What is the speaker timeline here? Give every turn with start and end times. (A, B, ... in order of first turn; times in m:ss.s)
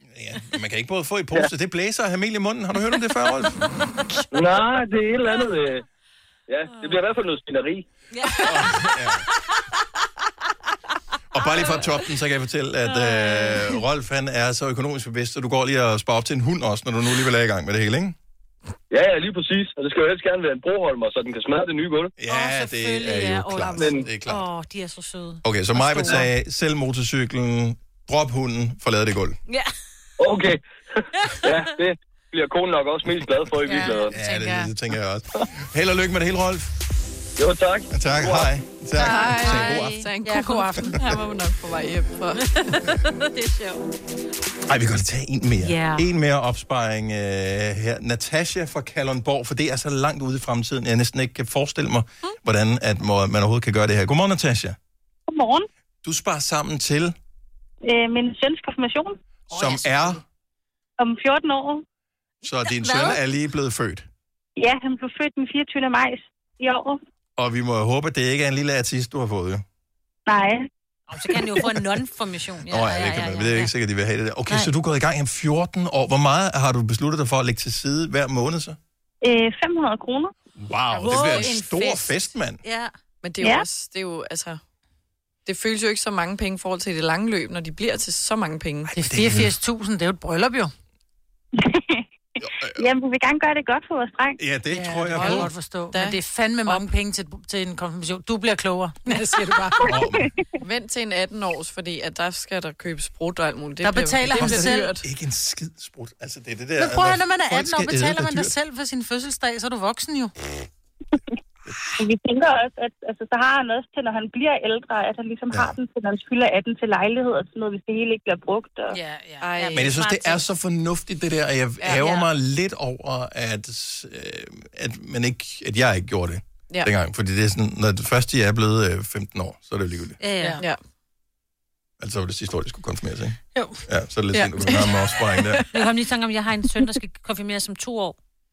0:00.2-0:03.8 A
0:04.3-0:05.8 B
0:06.5-0:07.8 B
0:08.1-0:08.6 C
0:08.4-0:09.3 A
0:11.3-0:18.2 A
0:11.4-0:11.8 C
0:12.9-0:13.8 C
0:18.9-0:22.1 B
0:22.2-0:24.4 A
0:22.2-0:26.3 C
0:23.8-0:24.1 B
0:25.4-0:29.4 A
0:30.2-0:34.1 B
0:33.7-0:34.7 D
0:34.1-0:36.7 A
0:37.4-0:38.5 B
0:37.9-0:40.0 A
0:39.0-0:42.5 E
0:39.0-0:40.9 C
0:40.3-0:41.0 D
0:42.6-0:43.8 C
0:44.7-0:54.8 A
0:45.6-0:46.1 C
0:55.3-0:55.7 F
0:56.0-0:57.2 A
0:57.8-0:59.2 F
0:59.5-1:00.2 A
0:59.5-1:00.2 D
1:01.0-1:01.8 F
1:02.4-1:04.1 A
1:02.6-1:03.2 C
1:04.6-1:07.0 F
1:07.4-1:09.6 A
1:10.3-1:10.7 F
1:11.1-1:13.7 C
1:12.7-1:18.8 A
1:19.2-1:20.3 F
1:20.6-1:22.6 A
1:21.0-1:21.6 E
1:21.0-1:22.9 C
1:23.2-1:24.6 E
1:25.5-1:28.9 E
1:28.9-1:29.5 A
1:29.0-1:30.7 D
1:31.6-1:32.1 F
1:32.4-1:32.9 A
1:32.8-1:34.4 F
1:34.4-1:35.5 A
1:34.7-1:40.0 D
1:35.1-1:36.9 E
1:39.8-1:40.3 A
1:40.6-1:45.0 E
1:43.8-1:44.9 D
1:44.3-1:48.5 A
1:46.8-1:50.3 D
1:52.0-1:59.0 F
1:55.5-1:55.8 A
1:58.9-1:59.8 D
1:59.4-1:59.9 E
1:59.7-2:00.4 C
1:59.8-2:10.2 A
2:01.8-2:02.1 E
2:10.2-2:10.6 C
2:12.0-2:15.6 A
2:13.6-2:13.8 D
2:14.3-2:15.7 E
2:15.7-2:18.2 C